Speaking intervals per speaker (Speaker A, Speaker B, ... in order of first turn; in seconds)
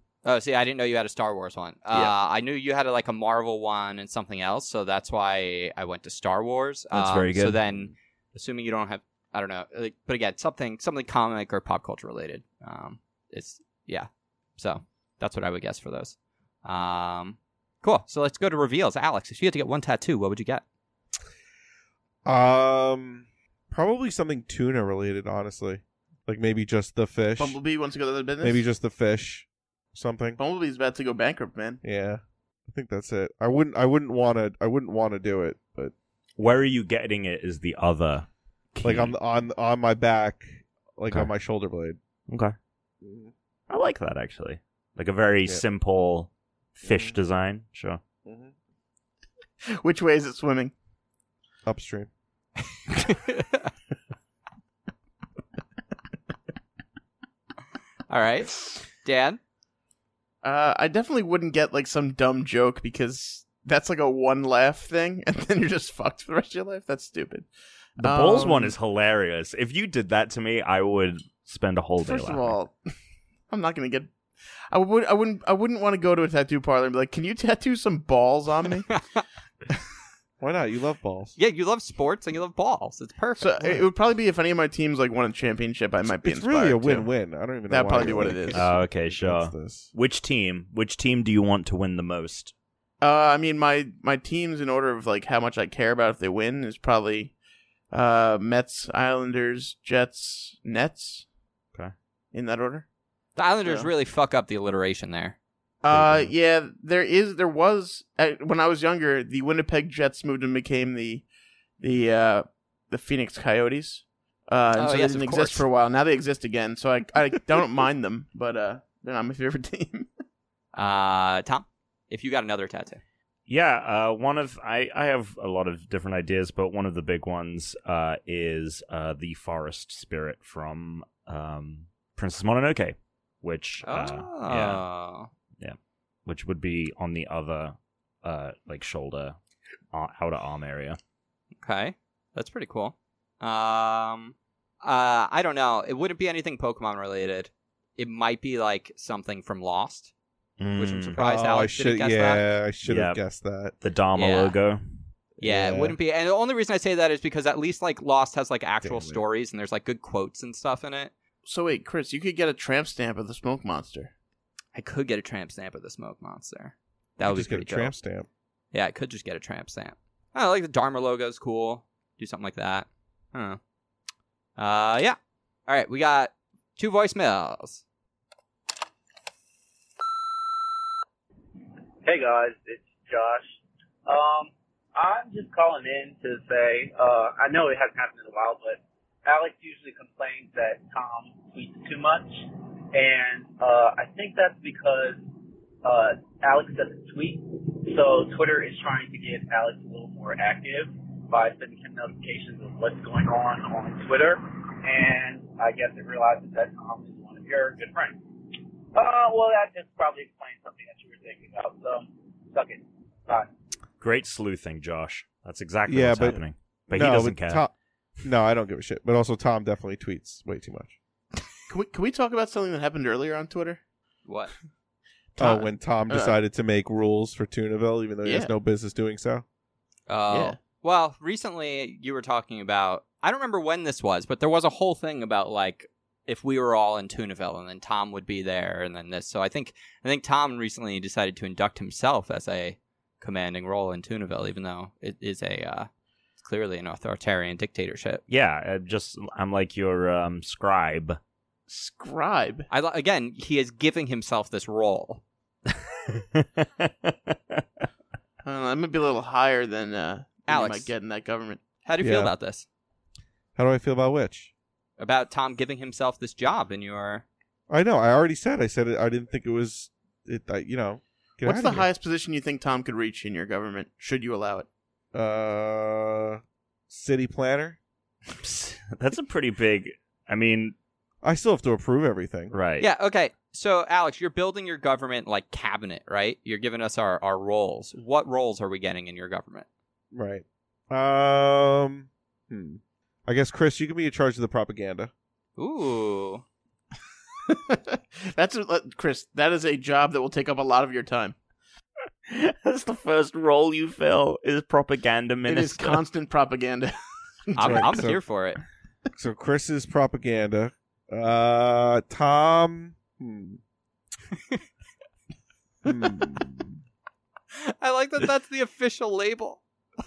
Speaker A: 0.2-20.6, 53.1-53.7, 58.1-59.4, 78.9-79.2, 81.4-83.6, 103.3-105.3, 114.8-115.6, 120.7-123.0, 133.8-135.3, 141.6-150.1, 150.8-152.4, 154.2-154.5, 155.4-161.1, 164.7-167.9, 168.7-173.6, 174.6-177.8, 224.2-224.5, 230.1-245.9, 246.4-248.2, 252.7-255.2, 260.5-260.9, 261.8-262.6, 265.0-267.2, 282.8-289.6, 295.6-296.4, 307.6-308.6, 317.6-319.6
Speaker B: 6.9-7.6, 36.4-39.1, 42.3-42.5, 43.7-48.0, 68.0-72.5, 88.5-92.5, 105.9-106.3, 123.5-134.8, 135.6-139.4, 139.9-141.0, 150.6-151.2, 152.8-153.2, 153.8-154.8, 214.0-217.6, 248.3-251.2, 255.9-257.6, 278.4-280.7, 282.5-282.9, 302.3-306.0
Speaker C: 22.2-27.6, 28.4-30.4, 31.8-35.9, 38.8-42.0, 43.0-43.3, 46.9-47.1, 48.2-48.5, 51.6-52.1, 80.4-81.3, 86.1-89.9, 151.2-153.7, 155.4-156.0, 158.8-159.2, 167.2-168.3, 215.9-220.9, 225.4-229.4, 262.0-262.3, 263.6-264.5, 267.7-271.9, 275.1-277.8, 281.2-282.5, 290.1-295.1, 307.6-308.2, 309.1-313.6, 315.8-316.7
Speaker D: 27.4-28.6, 30.4-31.8, 49.7-50.7, 60.4-67.5, 68.0-68.7, 72.0-72.8, 73.5-74.2, 74.7-78.9, 83.4-87.1, 87.7-88.7, 93.0-97.3, 97.9-101.2, 102.3-102.8, 103.6-103.9, 105.8-111.2, 111.8-120.1, 161.4-164.1, 221.7-223.8, 225.4-226.3, 228.2-228.5, 230.3-230.6, 251.7-252.7, 258.4-261.6, 271.4-274.7, 297.5-301.3, 305.5-306.9, 307.5-308.0
Speaker E: 182.0-195.2, 195.8-213.5